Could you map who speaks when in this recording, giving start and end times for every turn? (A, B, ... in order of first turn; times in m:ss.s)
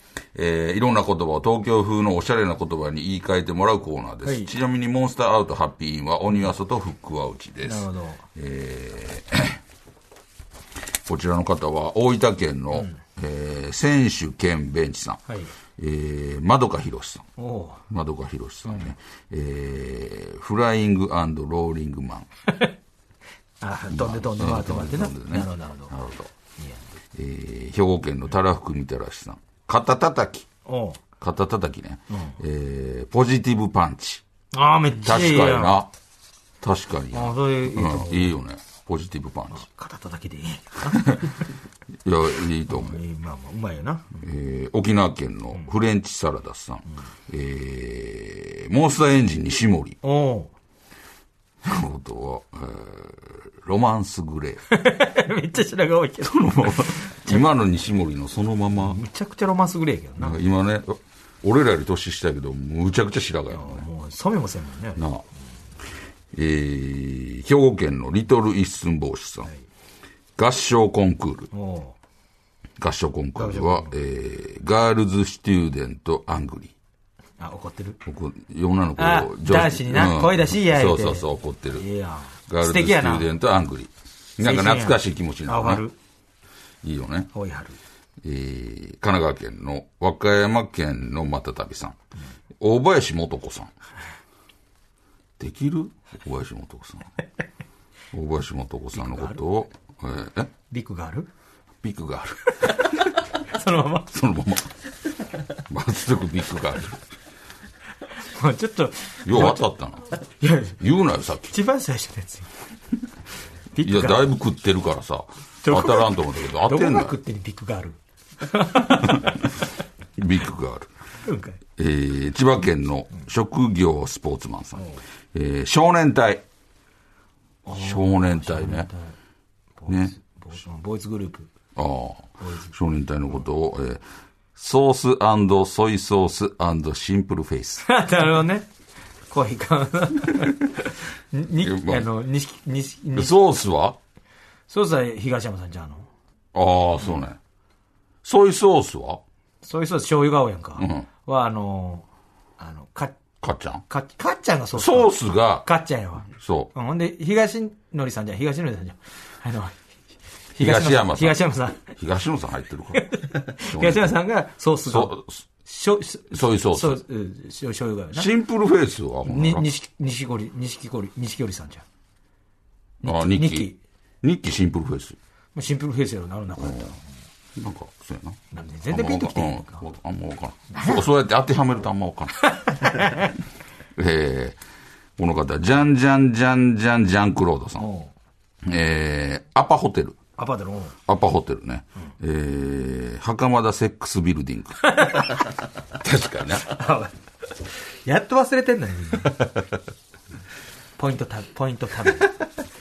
0:00.3-0:09.6 A
0:04.2-0:04.5 B
0:07.6-0:08.2 B
0:11.0-0:15.2 A
0:15.8-0:17.3 A
0:17.4-0:17.8 B
0:17.9-0:22.3 A
0:23.6-0:25.9 B
0:23.9-0:26.3 A
0:27.1-0:30.5 A
0:30.6-0:31.0 B
0:31.2-0:34.2 A
0:32.1-0:32.4 B
0:34.5-0:35.8 B
0:35.0-0:35.9 A
0:36.6-0:39.6 A
0:37.1-0:38.3 B
0:39.5-0:41.4 B
0:40.9-0:41.3 A
0:42.0-0:43.0 A
0:42.7-0:44.2 B
0:44.2-0:50.0 A
0:50.0-0:50.5 B
0:51.6-0:54.6 A
0:54.7-0:57.4 B
0:56.2-0:59.0 A
0:58.8-1:00.4 B
1:00.2-1:03.8 A
1:03.5-1:05.0 B
1:05.0-1:05.2 A
1:06.3-1:09.5 A
1:10.4-1:11.5 A
1:11.5-1:12.0 B
1:12.8-1:16.7 A
1:13.4-1:13.9 B
1:17.4-1:18.0 B
1:18.0-1:21.8 A
1:19.0-1:23.3 B
1:22.5-1:25.8 A
1:24.4-1:25.9 B
1:26.8-1:27.3 A
1:27.3-1:27.8 B
1:28.2-1:32.0 A
1:32.6-1:33.7 A
1:35.4-1:37.1 A
1:38.1-1:40.5 A
1:39.0-1:39.4 B
1:40.7-1:41.3 B
1:41.8-1:42.8 A
1:42.6-1:44.1 B
1:44.1-1:44.7 A
1:45.7-1:47.0 A
1:48.2-1:49.6 B
1:49.2-1:50.0 A
1:50.4-1:50.8 B
1:50.8-1:51.5 A
1:51.5-1:52.5 B
1:53.8-1:54.3 B
1:53.8-1:57.2 A
1:55.6-1:59.4 B
1:59.0-1:59.4 A
2:00.2-2:00.9 A
2:01.2-2:01.6 B
2:01.8-2:06.4 A
2:04.7-2:05.0 B
2:07.6-2:09.1 B
2:07.7-2:08.9 A
2:09.8-2:11.5 B
2:11.8-2:14.0 A
2:12.4-2:12.7 B
2:14.6-2:17.8 A
2:17.8-2:18.7 B
2:19.3-2:23.3 B
2:21.6-2:22.1 A
2:23.1-2:24.0 A
2:24.7-2:26.0 B
2:26.5-2:27.4 A
2:28.2-2:29.2 A
2:29.6-2:32.0 B
2:30.8-2:31.0 A
2:32.6-2:33.2 B
2:33.4-2:33.8 A
2:33.9-2:39.8 B
2:34.8-2:35.7 A
2:36.3-2:36.7 A
2:40.6-2:41.9 B
2:40.6-2:43.0 A
2:42.9-2:48.3 B
2:43.6-2:44.2 A
2:44.8-2:45.4 A
2:46.3-2:47.0 A
2:48.1-2:49.6 A
2:49.2-2:51.8 B
2:53.0-2:53.7 A
2:53.0-2:53.8 B
2:54.2-2:55.2 A
2:55.5-2:57.0 B
2:56.6-2:56.9 A
2:57.6-3:02.5 A
2:58.5-2:59.8 B
3:02.5-3:03.3 B
3:04.0-3:04.6 A
3:05.2-3:07.8 A
3:07.8-3:08.1 B
3:08.6-3:10.2 A
3:10.4-3:11.0 B
3:11.1-3:14.9 A
3:14.9-3:15.4 B
3:16.0-3:16.8 A
3:16.7-3:17.1 B
3:18.0-3:19.4 B
3:21.0-3:22.3 B